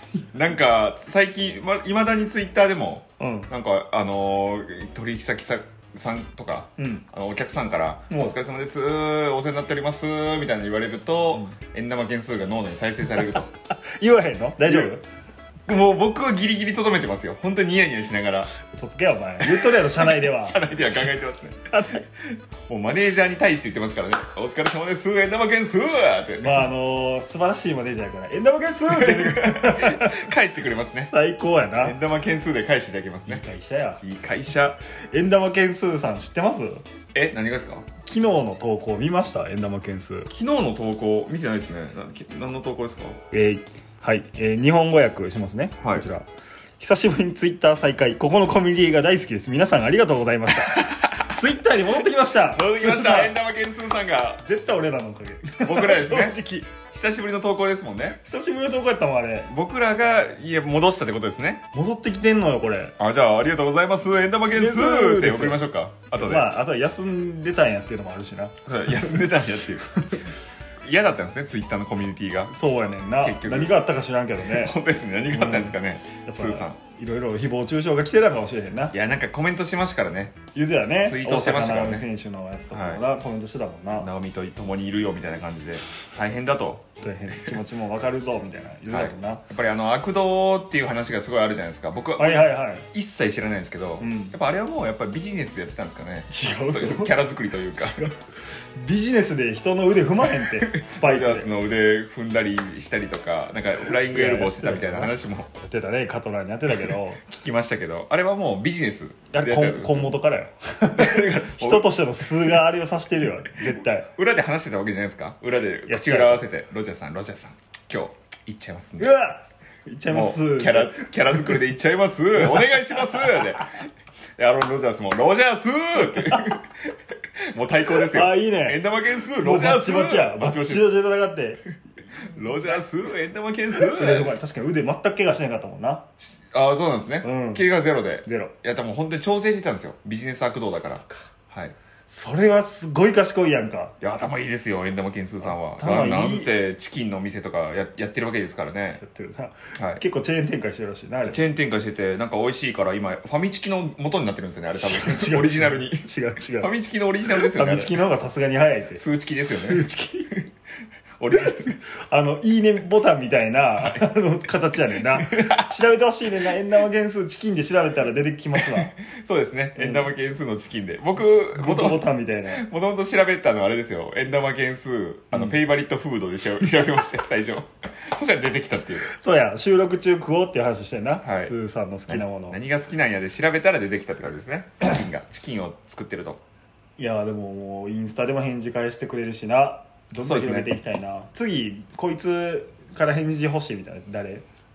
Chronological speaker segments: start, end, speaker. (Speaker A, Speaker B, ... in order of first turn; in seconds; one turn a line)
Speaker A: 0.3-13.5
Speaker B: 3.2-3.5
Speaker B: 6.8-7.1
Speaker B: 8.1-8.3
Speaker B: 14.0-15.0
Speaker A: 14.7-14.9
Speaker A: 15.7-18.5
Speaker B: 18.6-21.1
Speaker A: 19.4-21.6
Speaker B: 21.7-22.1
Speaker A: 22.2-26.6
Speaker B: 26.4-30.2
Speaker A: 28.9-31.1
Speaker B: 31.1-32.0
Speaker A: 31.8-33.4
Speaker B: 33.3-34.0
Speaker A: 34.0-34.8
Speaker B: 35.1-36.8
Speaker A: 37.1-37.9
Speaker B: 38.0-40.3
Speaker A: 40.3-43.2
Speaker B: 43.3-46.3
Speaker A: 45.8-46.1
Speaker B: 46.8-53.4
Speaker A: 50.5-51.5
Speaker A: 52.4-54.4
Speaker B: 54.4-56.7
Speaker A: 55.6-56.4
Speaker A: 56.9-58.2
Speaker B: 58.2-59.5
Speaker A: 59.5-61.6
Speaker B: 61.7-63.0
Speaker A: 63.0-66.5
Speaker B: 64.5-65.6
Speaker B: 66.1-69.3
Speaker A: 68.7-69.8
Speaker A: 70.8-72.5
Speaker B: 72.5-74.8
Speaker A: 73.2-73.8
Speaker A: 74.5-76.8
Speaker B: 75.3-79.0
Speaker A: 78.9-80.4
Speaker B: 80.5-84.1
Speaker A: 81.0-82.1
Speaker A: 82.7-83.0
Speaker A: 84.0-87.5
Speaker B: 87.0-89.4
Speaker A: 88.9-98.0
Speaker B: 92.2-92.9
Speaker B: 94.0-94.3
Speaker B: 96.3-97.2
Speaker B: 97.7-101.5
Speaker A: 100.3-105.5
Speaker B: 103.9-107.2
Speaker A: 106.9-110.2
Speaker B: 109.3-114.1
Speaker A: 110.9-112.6
Speaker A: 114.2-119.1
Speaker B: 115.9-116.4
Speaker B: 119.0-121.6
Speaker A: 120.1-127.0
Speaker B: 122.4-123.7
Speaker B: 126.1-126.5
Speaker A: 127.5-131.0
Speaker B: 128.0-128.8
Speaker B: 129.4-131.6
Speaker A: 132.3-134.4
Speaker B: 132.3-132.8
Speaker B: 133.7-136.1
Speaker A: 136.2-141.8
Speaker B: 137.2-137.7
Speaker B: 138.2-138.6
Speaker B: 140.9-141.3
Speaker B: 142.1-143.9
Speaker A: 144.0-149.0
Speaker B: 145.4-146.6
Speaker B: 149.0-151.5
Speaker A: 149.8-150.0
Speaker A: 151.2-156.0
Speaker B: 154.8-156.7
Speaker A: 156.6-158.0
Speaker B: 157.3-160.4
Speaker A: 158.9-159.8
Speaker A: 161.2-161.8
Speaker B: 161.4-168.9
Speaker A: 165.1-165.7
Speaker A: 168.6-179.1
Speaker B: 169.8-170.1
Speaker B: 171.6-172.6
Speaker B: 175.3-175.6
Speaker B: 179.1-182.6
Speaker A: 181.2-181.5
Speaker A: 182.1-186.4
Speaker B: 187.0-194.4
Speaker A: 190.2-190.7